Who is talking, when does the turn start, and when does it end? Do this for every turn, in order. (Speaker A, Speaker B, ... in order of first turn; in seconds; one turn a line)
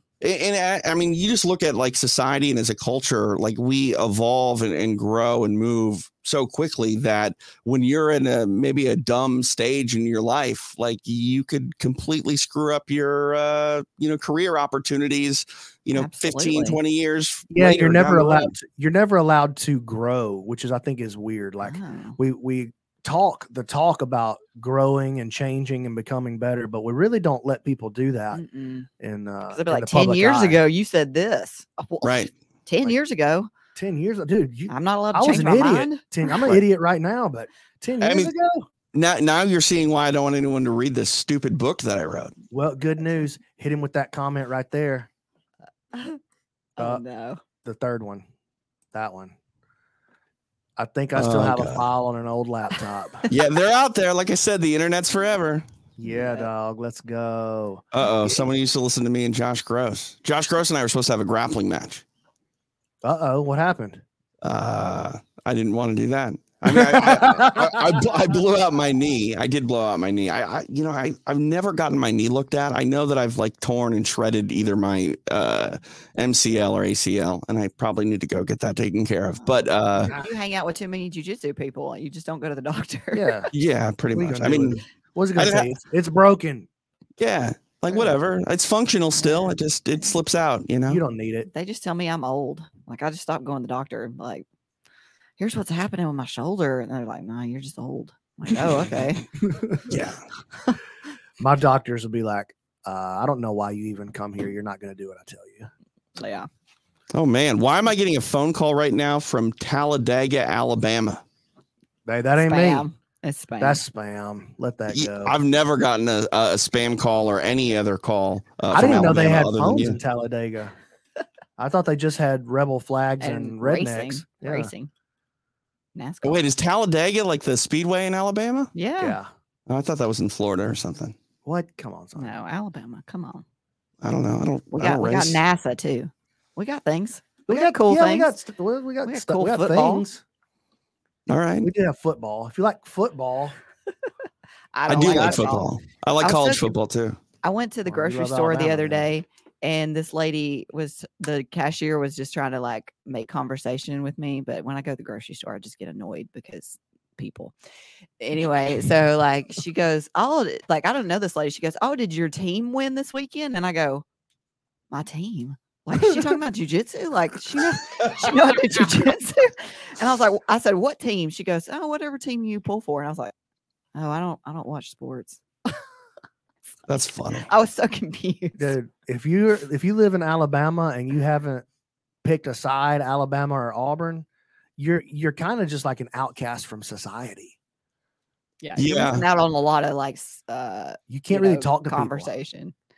Speaker A: 0.2-18.5
Speaker B: 15.9-16.8
Speaker C: 17.5-28.4
Speaker B: 21.6-22.2
Speaker B: 28.3-28.9
Speaker C: 29.0-30.6
Speaker B: 29.5-33.5
Speaker A: 32.0-32.3
Speaker C: 33.8-38.7
Speaker B: 34.7-36.0
Speaker A: 38.0-38.3
Speaker A: 38.9-42.3
Speaker C: 42.5-45.1
Speaker B: 45.9-46.2
Speaker B: 46.8-47.4
Speaker C: 46.8-47.0
Speaker C: 47.6-48.2
Speaker C: 48.9-49.3
Speaker C: 50.8-53.2
Speaker A: 51.1-51.8
Speaker A: 53.3-55.6
Speaker C: 56.0-58.3
Speaker B: 56.0-56.5
Speaker A: 57.9-62.0
Speaker C: 63.0-64.0
Speaker A: 64.4-80.1
Speaker C: 66.7-67.9
Speaker B: 79.4-83.4
Speaker C: 83.1-83.5
Speaker A: 83.5-84.8
Speaker C: 84.1-86.7
Speaker A: 85.3-85.7
Speaker A: 87.2-91.0
Speaker C: 90.9-91.5
Speaker B: 91.5-94.5
Speaker B: 95.4-99.2
Speaker C: 99.4-99.8
Speaker A: 99.9-100.2
Speaker C: 101.4-105.7
Speaker B: 106.2-106.5
Speaker A: 107.1-111.2
Speaker C: 112.0-112.9
Speaker B: 112.3-113.8
Speaker C: 113.6-115.4
Speaker A: 114.9-120.0
Speaker C: 118.7-120.7
Speaker C: 121.6-124.7
Speaker B: 123.2-124.9
Speaker B: 125.9-126.5
Speaker A: 126.2-128.7
Speaker B: 128.7-129.2
Speaker C: 129.0-129.3
Speaker A: 129.7-131.2
Speaker C: 131.4-132.3
Speaker B: 132.1-133.4
Speaker A: 134.0-135.4
Speaker B: 134.7-138.3
Speaker C: 137.5-140.2
Speaker B: 139.0-140.0
Speaker A: 141.3-141.7
Speaker C: 141.6-143.6
Speaker B: 144.7-146.7
Speaker A: 144.9-147.2
Speaker C: 144.9-145.6
Speaker B: 147.4-157.5
Speaker C: 147.8-149.1
Speaker B: 158.2-164.0
Speaker B: 164.9-173.3
Speaker B: 173.9-175.8
Speaker A: 176.9-177.5
Speaker B: 177.4-178.7
Speaker C: 178.6-181.6
Speaker C: 182.2-184.2
Speaker C: 184.8-187.5
Speaker B: 188.6-192.7
Speaker A: 188.8-189.2
Speaker C: 191.1-192.3